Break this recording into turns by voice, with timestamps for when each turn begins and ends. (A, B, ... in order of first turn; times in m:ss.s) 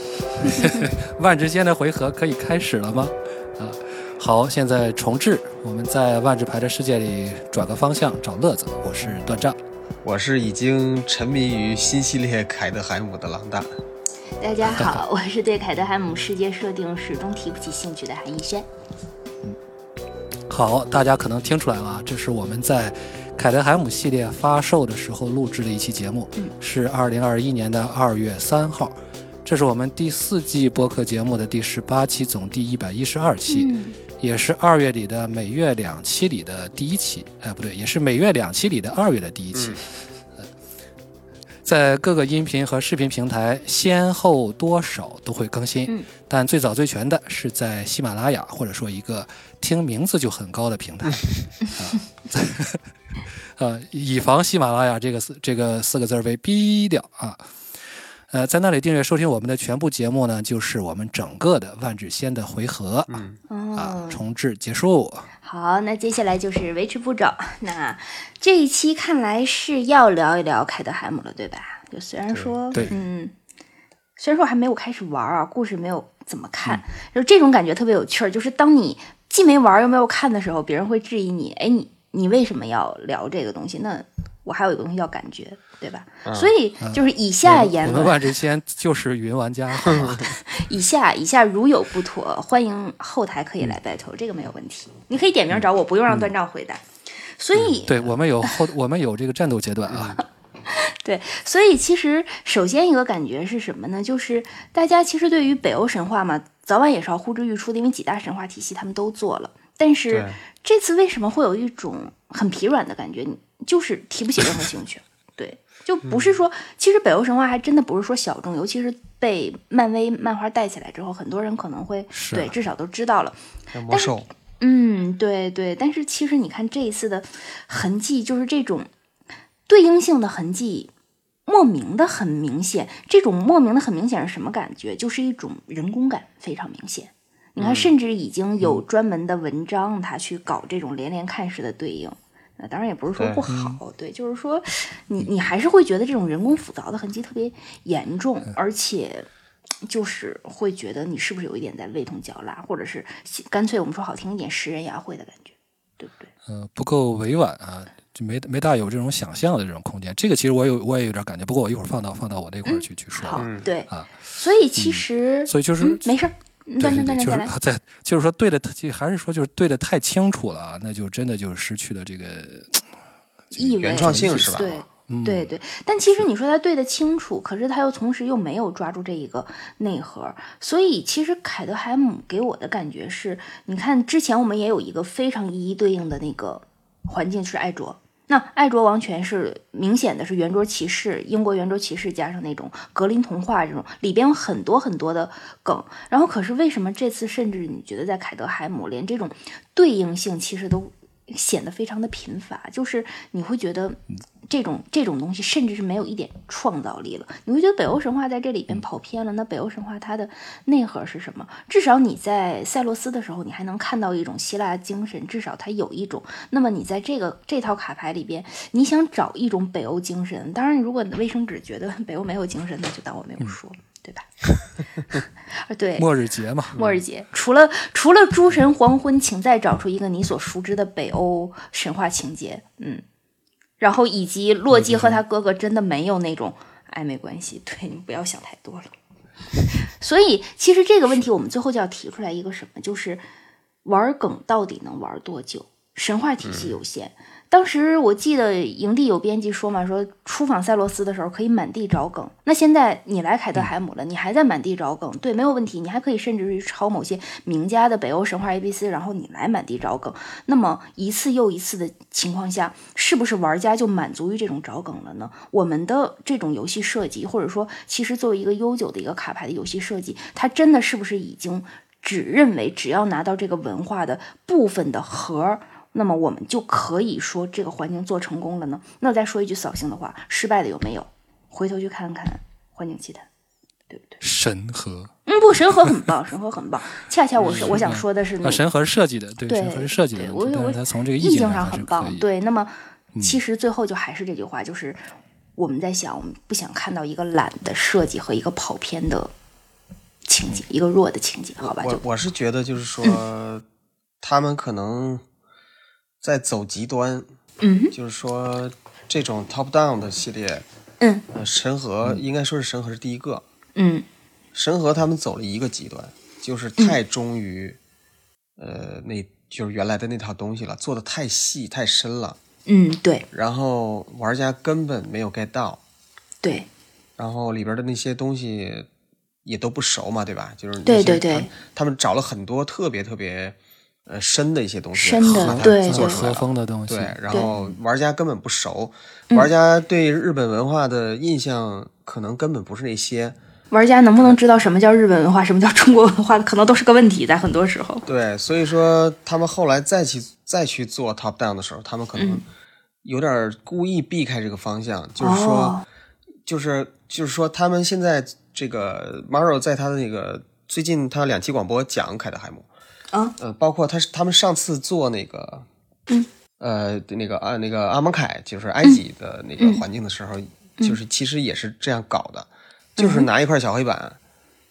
0:00.3-0:09.6 A
0:10.0-0:13.7 B
0:14.4-0:18.7 C
0:14.7-0:15.0 A
0:20.5-0:39.8 A
0:33.5-0:34.0 C
0:39.5-0:39.8 B
0:41.6-0:52.8 A
0:53.6-0:57.4 A
0:58.3-1:03.2 A
1:03.1-1:03.4 B
1:03.5-1:04.2 C
1:03.7-1:05.3 A
1:05.4-1:13.3 C
1:12.3-1:12.9 B
1:14.2-1:28.2 C
1:26.2-1:26.5 B
1:26.8-1:30.2 A
1:29.8-1:30.2 B
1:30.1-1:36.8 C
1:35.5-1:36.3 B
1:37.4-1:38.5 C
1:37.5-1:37.8 B
1:37.9-1:40.2 A
1:39.9-1:40.2 B
1:40.7-2:08.9 C
1:50.1-1:50.4 B
1:56.0-1:56.4 B
2:02.1-2:02.5 A
2:03.7-2:04.3 B
2:09.7-2:10.9 C
2:11.5-2:29.3 C
2:17.6-2:17.9 B
2:23.2-2:23.4 B
2:23.5-2:23.8 A
2:29.8-2:36.3 C
2:36.5-2:44.1 A
2:42.6-2:47.5 C
2:43.4-2:43.7 B
2:44.8-2:46.0 A
2:46.8-2:52.8 A
2:53.5-2:55.5 A
2:53.5-3:44.3 C
2:53.8-2:54.7 B
3:45.6-3:46.1 C
3:46.0-3:46.8 A
3:46.7-3:47.0 B
3:46.7-3:53.0 C
3:53.8-3:58.9 C
3:54.7-3:55.2 B
4:00.0-4:03.2 C
4:03.8-4:43.2 C
4:06.4-4:06.7 B
4:43.9-4:44.2 C
4:44.2-4:45.1 A
4:45.2-4:48.6 C
4:47.4-4:47.8 B
4:47.5-4:52.2 A
4:49.5-4:55.0 C
4:55.6-4:59.3 C
5:00.2-5:02.0 C
5:01.6-5:03.6 B
5:04.2-5:05.2 B
5:06.2-5:07.3 B
5:07.6-5:07.9 C
5:07.9-5:10.6 B
5:11.0-5:11.2 C
5:11.3-5:13.4 B
5:13.7-5:14.0 C
5:14.5-5:17.8 B
5:18.6-5:22.4 B
5:22.6-5:23.2 C
5:23.3-5:25.8 B
5:26.4-5:26.7 C
5:27.2-5:28.9 B
5:29.4-5:33.6 B
5:30.8-5:31.5 C
5:34.1-5:43.4 B
5:34.9-5:36.2 C
5:35.2-5:37.2 A
5:43.7-5:48.1 C
5:48.0-5:52.4 B
5:52.1-5:52.4 C
5:53.0-5:55.8 B
5:55.2-5:55.8 C
5:56.4-6:02.7 B
6:03.4-6:05.6 B
6:06.6-6:14.2 B
6:09.6-6:09.8 C
6:13.0-6:13.3 C